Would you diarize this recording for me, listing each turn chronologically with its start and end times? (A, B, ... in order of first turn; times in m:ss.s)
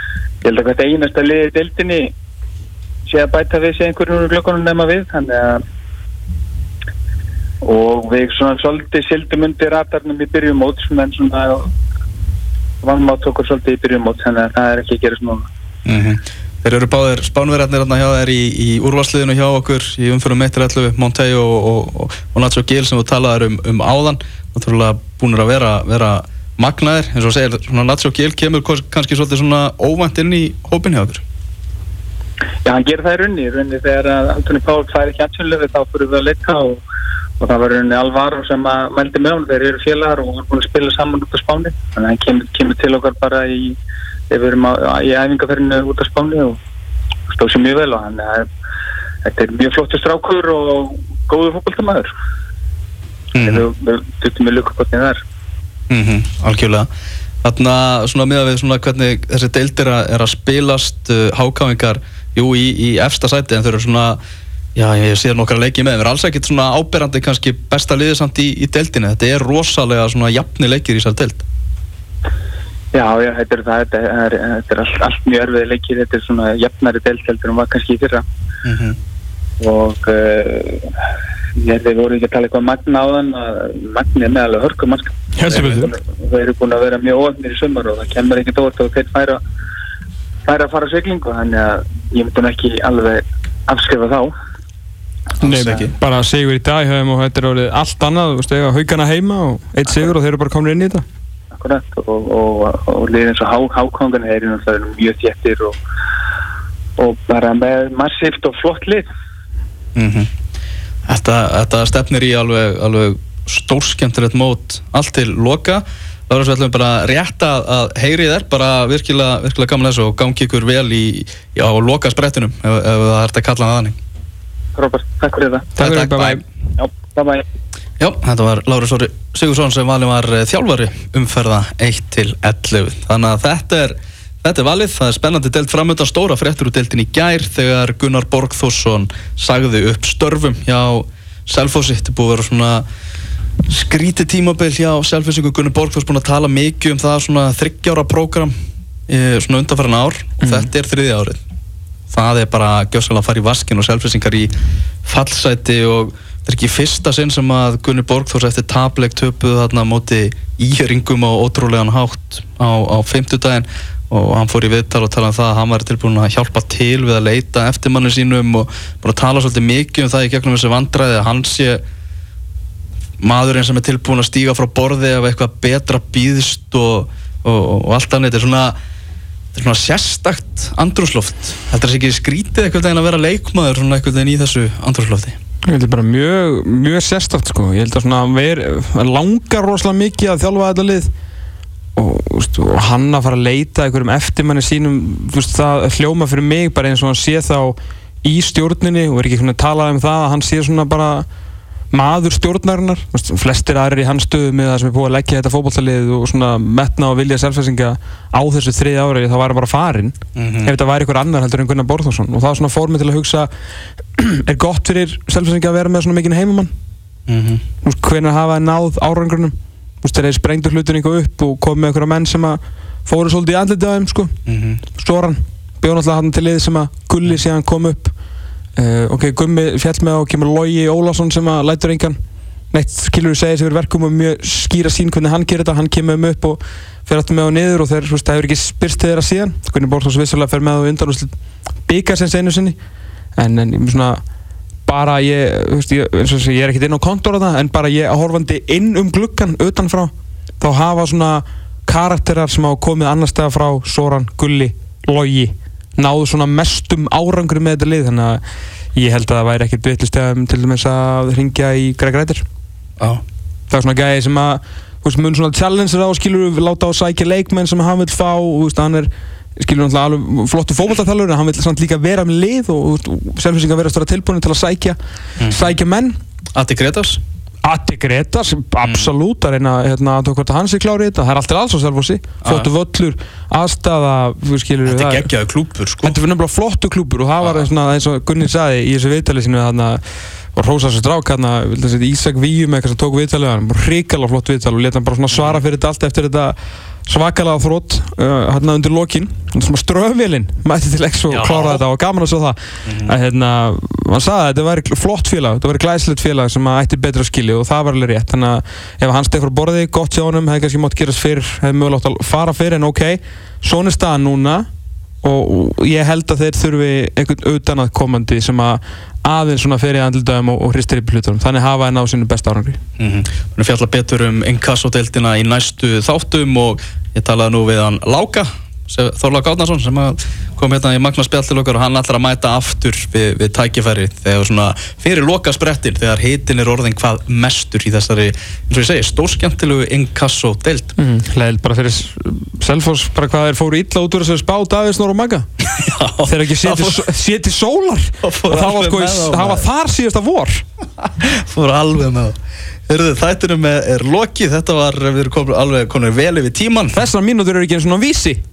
0:00.4-0:02.1 A
0:03.1-0:05.6 A
0:07.7-0:11.7 A
0:12.8-0:15.5 A
0:15.9-0:31.2 B
0:32.7-0:36.8 A
0:37.4-0:43.8 A
0:44.3-0:46.6 A
0:47.3-0:48.4 A
0:49.3-0:52.1 A
0:53.4-0:53.7 B
0:53.4-0:55.2 A
0:55.9-0:56.9 B
0:57.4-1:04.2 B
1:04.8-1:11.4 B
1:13.0-1:18.2 A
1:18.6-1:19.0 B
1:19.6-1:20.9 A
1:21.6-1:29.4 A
1:25.4-1:25.9 C
1:30.5-1:34.3 A
1:35.4-1:35.9 B
1:35.4-1:41.0 C
1:41.6-1:45.8 A
1:47.0-1:49.1 A
1:50.0-1:50.3 B
1:51.1-2:04.0 B
2:04.8-2:05.7 A
2:05.8-2:06.4 C
2:05.8-2:06.4 B
2:06.8-2:07.4 A
2:08.0-2:22.8 B
2:23.7-2:28.5 B
2:29.1-2:31.4 B
2:32.1-2:34.5 B
2:35.0-2:51.8 B
2:53.2-2:58.8 B
2:59.6-3:05.4 B
3:05.7-3:11.1 C
3:12.0-3:21.3 C
3:21.9-3:33.5 C
3:30.4-3:30.7 B
3:34.2-3:36.7 C
3:37.3-3:37.6 B
3:37.8-3:44.4 C
3:44.5-3:44.8 B
3:45.0-3:48.1 C
3:48.8-3:52.2 C
3:52.7-4:01.3 C
4:01.9-4:02.8 C
4:03.4-4:04.2 C
4:04.9-4:18.4 C
4:19.0-4:22.4 C
4:23.7-4:35.0 C
4:35.5-4:36.2 C
4:36.6-4:37.2 B
4:37.6-4:45.3 C
4:38.8-4:39.1 B
4:42.4-4:42.7 B
4:44.9-4:46.2 B
4:46.0-4:50.0 C
4:47.4-4:47.7 B
4:50.6-5:14.7 C
4:55.3-4:55.6 B
5:01.3-5:01.8 B
5:02.9-5:03.1 B
5:15.2-5:22.8 C
5:23.0-5:40.9 B
5:41.0-5:45.5 C
5:45.6-5:47.0 B
5:46.3-5:50.6 C
5:48.2-5:49.7 B
5:51.0-5:52.4 B
5:52.9-5:57.0 B
5:56.9-5:58.4 C